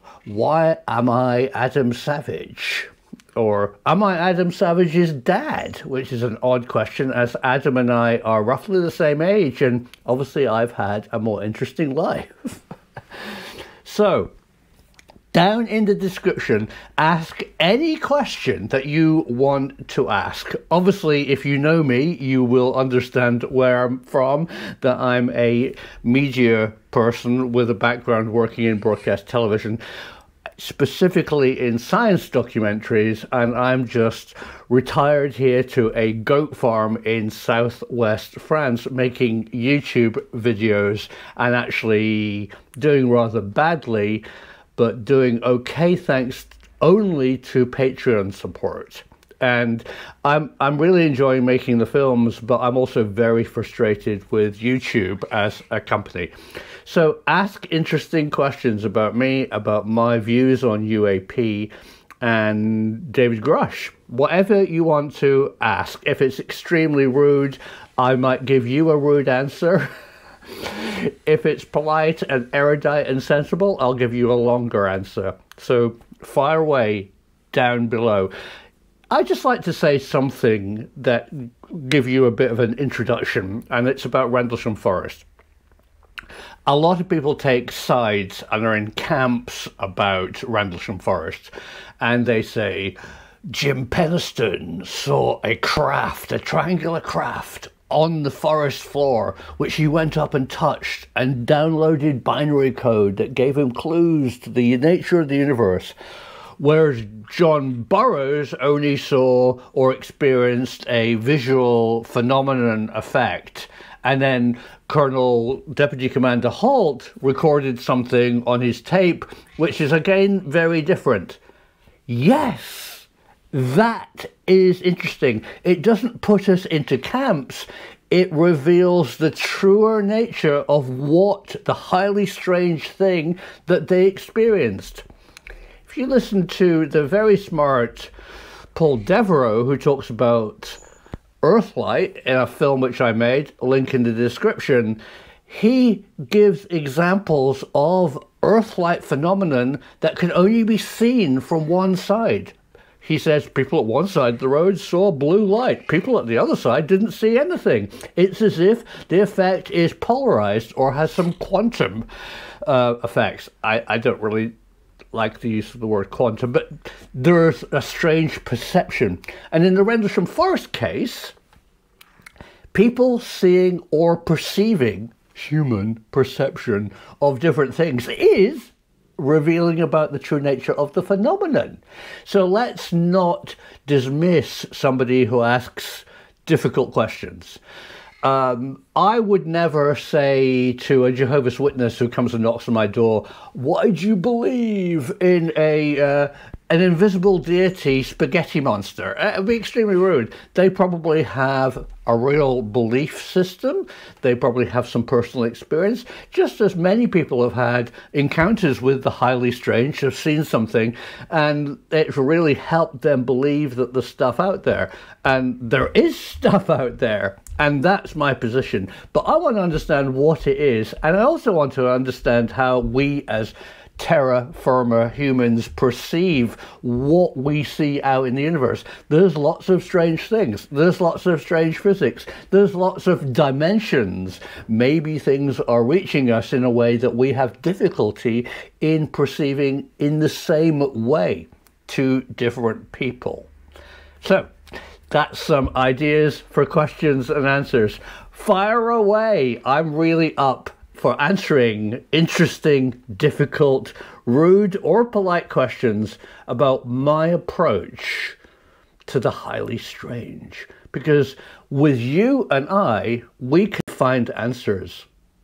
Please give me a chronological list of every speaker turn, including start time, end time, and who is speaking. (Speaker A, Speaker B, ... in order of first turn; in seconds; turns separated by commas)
Speaker A: 0.3-12.6, Speaker A: 13.2-14.3, Speaker A: 15.3-29.8, Speaker A: 30.6-44.2, Speaker A: 44.8-56.3, Speaker A: 56.9-69.9, Speaker A: 70.6-78.3, Speaker A: 79.1-85.2, Speaker A: 86.7-93.0, Speaker A: 93.5-106.0, Speaker A: 106.6-121.4, Speaker A: 122.1-135.0, Speaker A: 135.9-138.1, Speaker A: 138.8-140.8, Speaker A: 141.4-162.1, Speaker A: 162.7-164.5, Speaker A: 165.1-171.3, Speaker A: 172.7-187.6, Speaker A: 188.2-243.5, Speaker A: 244.2-244.5, Speaker A: 245.1-258.4, Speaker A: 259.1-265.1